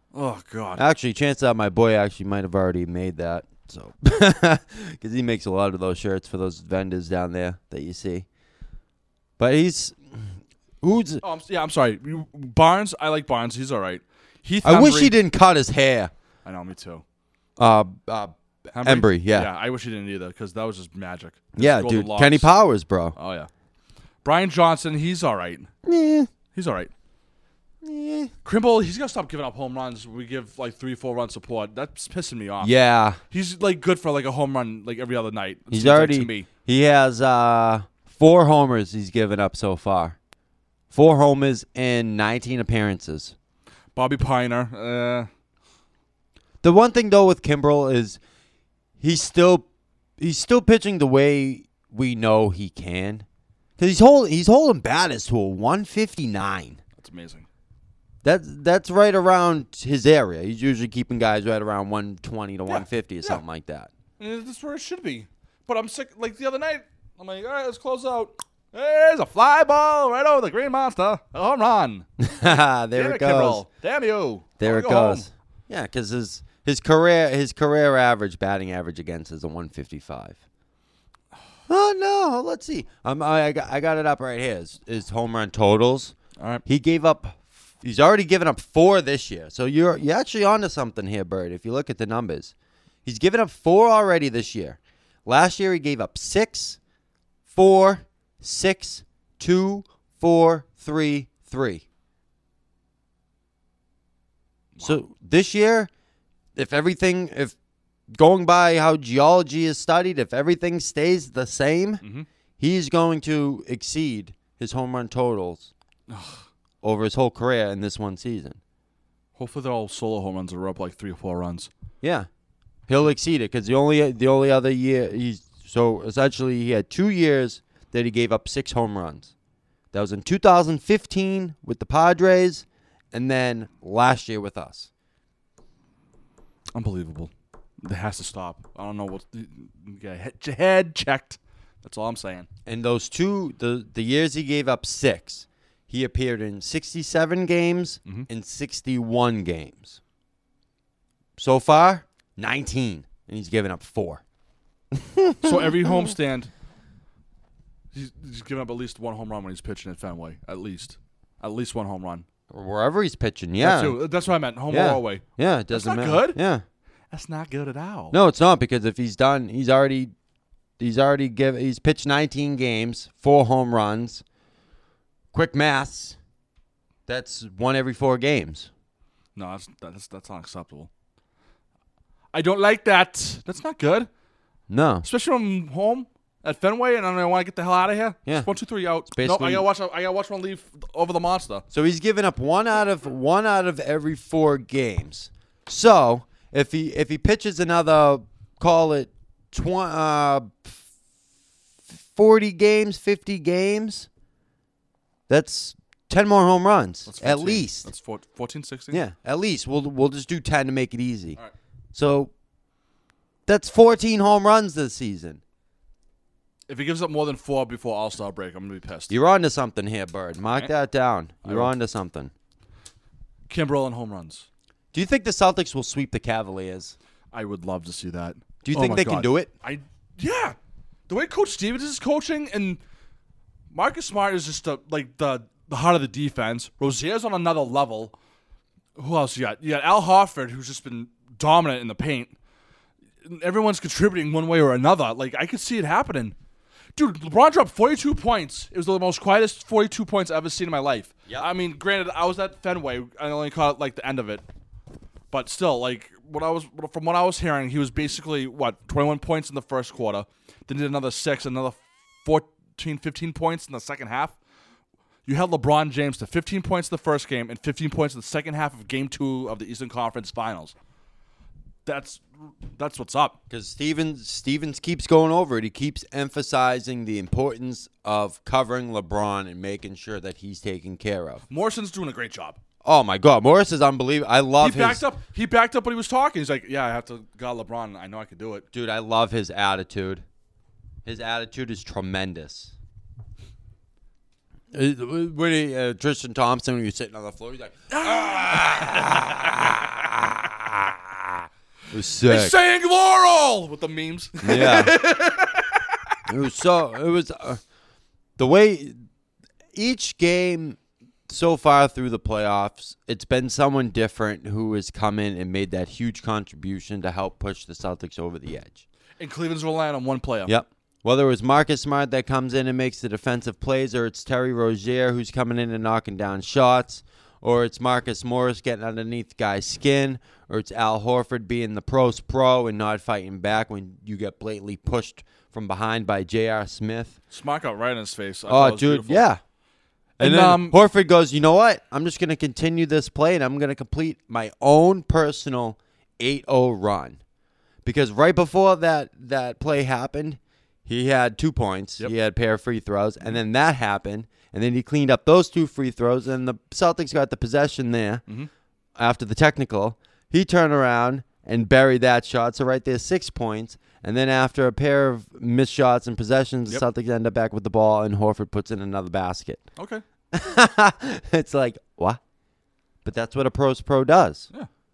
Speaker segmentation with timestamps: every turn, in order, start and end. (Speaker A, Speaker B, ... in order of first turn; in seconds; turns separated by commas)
Speaker A: 0.1-0.8, Speaker B: 0.8-8.2, Speaker B: 9.4-11.2, Speaker A: 11.2-15.1, Speaker B: 14.6-16.1, Speaker A: 16.4-17.0, Speaker B: 17.6-19.5, Speaker A: 18.7-22.5, Speaker B: 21.6-23.1, Speaker A: 23.1-23.5, Speaker A: 24.2-25.7, Speaker B: 25.8-26.3, Speaker A: 26.5-26.9, Speaker B: 27.8-28.3, Speaker A: 28.4-32.7, Speaker B: 32.6-33.2, Speaker A: 33.3-36.5, Speaker B: 35.7-40.2, Speaker B: 40.9-43.3, Speaker A: 43.9-45.3, Speaker B: 46.6-48.2, Speaker B: 49.0-49.7, Speaker B: 50.2-53.2, Speaker B: 53.8-56.8, Speaker A: 57.0-57.5, Speaker B: 58.2-63.9, Speaker A: 62.7-63.4, Speaker A: 64.2-72.1, Speaker B: 72.2-73.6, Speaker A: 72.9-75.2, Speaker B: 74.6-80.4, Speaker B: 81.7-92.5, Speaker A: 86.4-86.6, Speaker B: 93.0-96.8, Speaker B: 97.5-101.8, Speaker A: 104.8-105.0, Speaker B: 104.8-105.9, Speaker B: 106.5-107.5, Speaker B: 108.1-112.0, Speaker B: 112.6-115.7, Speaker A: 116.1-116.5, Speaker B: 116.8-118.6, Speaker A: 119.3-121.7, Speaker B: 122.0-122.3, Speaker B: 122.9-129.3, Speaker B: 129.9-134.9, Speaker A: 136.7-137.3, Speaker A: 137.8-142.5, Speaker B: 142.7-150.0, Speaker B: 151.4-154.2, Speaker B: 154.9-156.1, Speaker A: 155.4-156.5, Speaker A: 157.9-162.2, Speaker B: 162.5-164.0, Speaker A: 163.6-166.4, Speaker B: 164.7-166.6, Speaker A: 167.1-168.2, Speaker B: 168.1-170.1, Speaker B: 170.8-174.2, Speaker B: 175.3-176.2, Speaker B: 177.1-178.7, Speaker A: 179.3-180.9, Speaker A: 182.3-184.1, Speaker B: 184.7-185.1, Speaker A: 185.0-191.6, Speaker B: 189.1-189.7, Speaker B: 191.7-200.8, Speaker B: 201.9-204.1, Speaker B: 205.3-207.9, Speaker A: 207.1-209.0, Speaker B: 208.9-211.4, Speaker B: 211.9-212.3, Speaker B: 213.5-215.4, Speaker A: 216.7-219.1, Speaker B: 219.1-222.3, Speaker A: 221.4-221.7, Speaker A: 223.5-224.5, Speaker B: 224.9-226.9, Speaker A: 227.3-230.6, Speaker B: 228.6-229.5, Speaker A: 231.1-232.8, Speaker A: 233.7-238.1, Speaker A: 239.0-242.3, Speaker A: 243.2-246.3, Speaker A: 246.9-254.4, Speaker A: 255.3-264.4, Speaker A: 265.2-270.7, Speaker A: 271.9-273.4, Speaker B: 273.5-281.4, Speaker A: 281.5-282.6, Speaker B: 282.8-285.0, Speaker A: 284.6-288.6, Speaker B: 288.7-290.2, Speaker B: 291.0-292.7, Speaker B: 294.7-301.2, Speaker A: 297.9-299.9, Speaker B: 301.9-302.5, Speaker A: 302.2-305.8, Speaker B: 304.4-304.9, Speaker B: 306.3-307.6, Speaker B: 308.4-309.0, Speaker B: 309.7-318.8, Speaker A: 319.2-320.5, Speaker B: 320.5-337.2, Speaker A: 337.3-339.2, Speaker B: 338.5-339.4, Speaker A: 340.2-340.8, Speaker B: 340.2-347.2, Speaker B: 347.8-358.2, Speaker B: 359.0-369.6, Speaker A: 369.8-370.0, Speaker B: 370.3-372.2, Speaker B: 373.0-374.5